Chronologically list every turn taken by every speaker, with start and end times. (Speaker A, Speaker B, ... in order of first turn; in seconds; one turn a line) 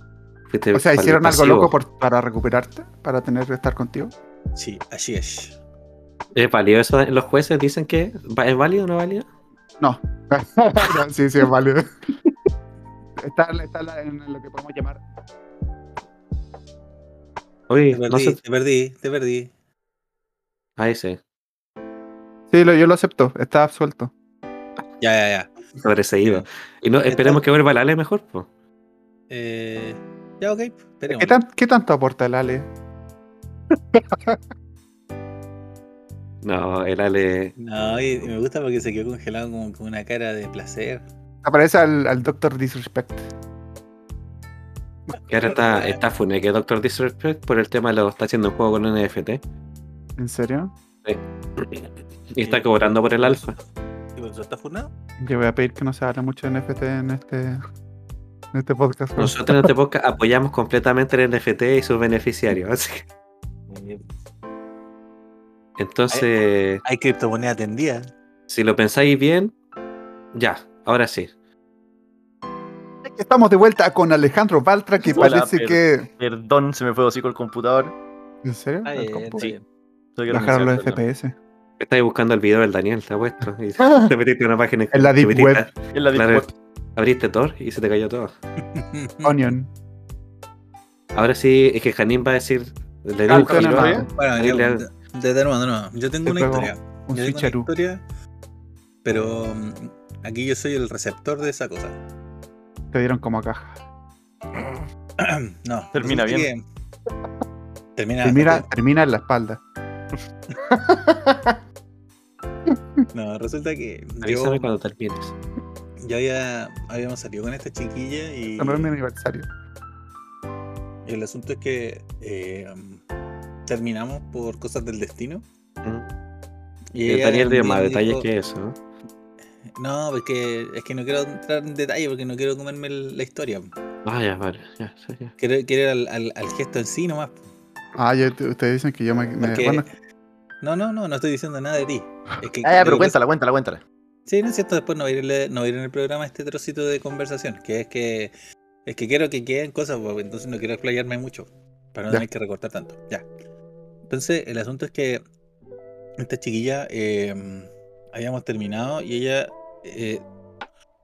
Speaker A: 0.5-1.7
Speaker B: 0.7-4.1
Speaker C: 4.5-5.5
Speaker A: 6.3-9.3
Speaker B: 9.8-11.8
Speaker B: 13.2-15.0
Speaker A: 17.7-18.4
Speaker C: 17.9-19.5
Speaker A: 20.8-21.2
Speaker B: 22.5-24.1
Speaker C: 25.0-25.5
Speaker A: 25.8-28.5
Speaker C: 27.1-27.4
Speaker C: 29.3-31.4
Speaker B: 31.1-32.7
Speaker B: 33.9-34.4
Speaker A: 36.4-37.5
Speaker C: 37.6-41.0
Speaker B: 41.4-43.3
Speaker C: 45.3-46.0
Speaker A: 45.3-49.4
Speaker B: 50.2-50.7
Speaker A: 51.0-53.5
Speaker C: 52.4-53.6
Speaker C: 54.1-54.9
Speaker B: 55.2-57.6
Speaker B: 58.5-59.7
Speaker A: 59.2-63.0
Speaker C: 63.7-64.0
Speaker A: 65.8-66.8
Speaker C: 66.8-68.1
Speaker A: 68.5-69.5
Speaker A: 70.3-71.3
Speaker B: 73.0-76.1
Speaker D: 75.0-77.9
Speaker B: 78.4-79.5
Speaker C: 78.8-79.6
Speaker D: 80.2-81.0
Speaker B: 80.3-81.3
Speaker A: 81.8-88.3
Speaker D: 83.8-84.1
Speaker B: 84.9-85.7
Speaker D: 85.9-86.5
Speaker C: 88.7-89.5
Speaker B: 89.2-89.7
Speaker A: 91.1-94.9
Speaker B: 93.3-94.1
Speaker D: 93.3-94.1
Speaker C: 94.1-98.0
Speaker B: 96.2-97.7
Speaker C: 99.0-102.0
Speaker B: 102.9-103.8
Speaker C: 105.2-106.6
Speaker D: 105.9-106.5
Speaker C: 108.0-108.7
Speaker B: 108.2-109.6
Speaker D: 110.6-111.5
Speaker C: 113.1-114.7
Speaker A: 114.2-115.3
Speaker C: 116.0-118.9
Speaker B: 118.6-119.5
Speaker C: 121.0-123.0
Speaker C: 123.7-125.4
Speaker C: 126.9-128.3
Speaker A: 127.0-128.8
Speaker C: 129.6-133.7
Speaker A: 134.0-135.3
Speaker C: 135.4-137.4
Speaker B: 137.9-139.9
Speaker C: 139.4-139.8
Speaker C: 140.6-143.2
Speaker D: 142.6-143.8
Speaker C: 144.2-148.3
Speaker C: 148.8-153.3
Speaker C: 154.1-155.2
Speaker C: 156.2-160.2